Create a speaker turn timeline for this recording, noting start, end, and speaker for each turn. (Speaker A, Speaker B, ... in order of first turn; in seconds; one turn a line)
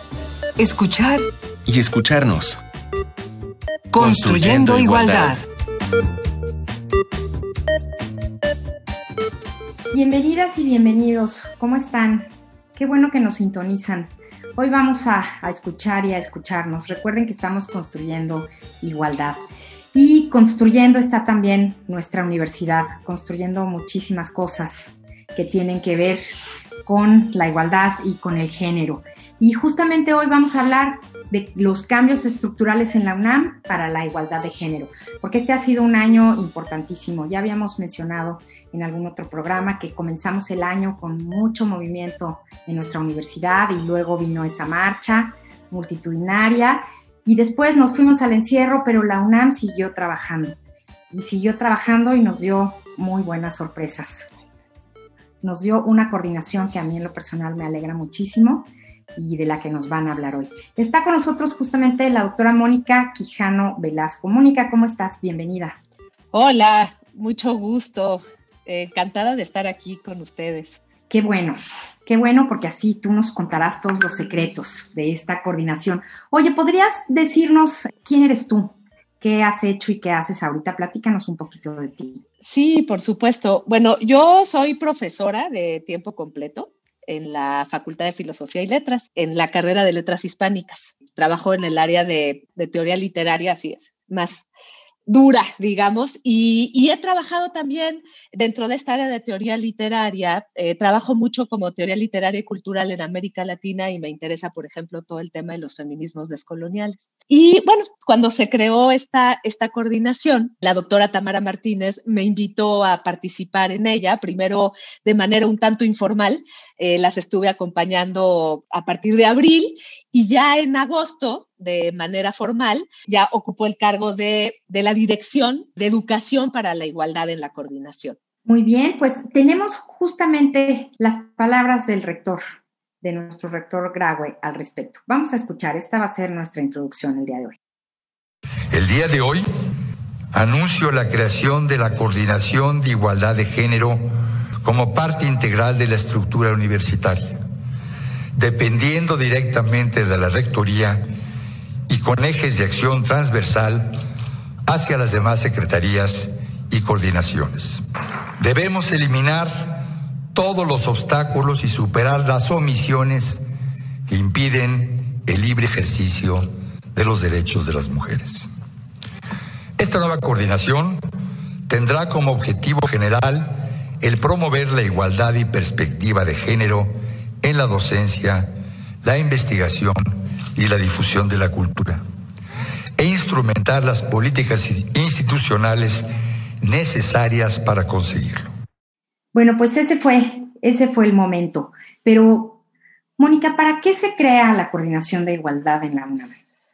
Speaker A: 0.6-1.2
Speaker B: 1.7-2.6
Speaker A: 3.9-5.4
Speaker B: 4.0-5.4
Speaker C: 9.9-19.4
Speaker C: 19.9-26.2
Speaker C: 26.9-50.6
Speaker C: 51.1-54.3
Speaker C: 55.4-65.8
Speaker D: 66.3-70.8
Speaker C: 71.1-82.2
Speaker D: 82.4-94.5
Speaker D: 95.1-128.2
Speaker C: 128.5-132.4
Speaker C: 133.0-137.6
Speaker E: 138.7-139.5
Speaker E: 140.3-144.0
Speaker E: 144.6-147.4
Speaker E: 148.4-151.0
Speaker E: 151.9-154.0
Speaker E: 154.7-157.8
Speaker E: 158.4-163.4
Speaker E: 164.1-168.5
Speaker E: 169.8-171.0
Speaker E: 171.7-178.5
Speaker E: 179.0-182.0
Speaker E: 183.0-186.1
Speaker E: 186.6-188.5
Speaker C: 189.3-192.6
Speaker C: 193.2-196.4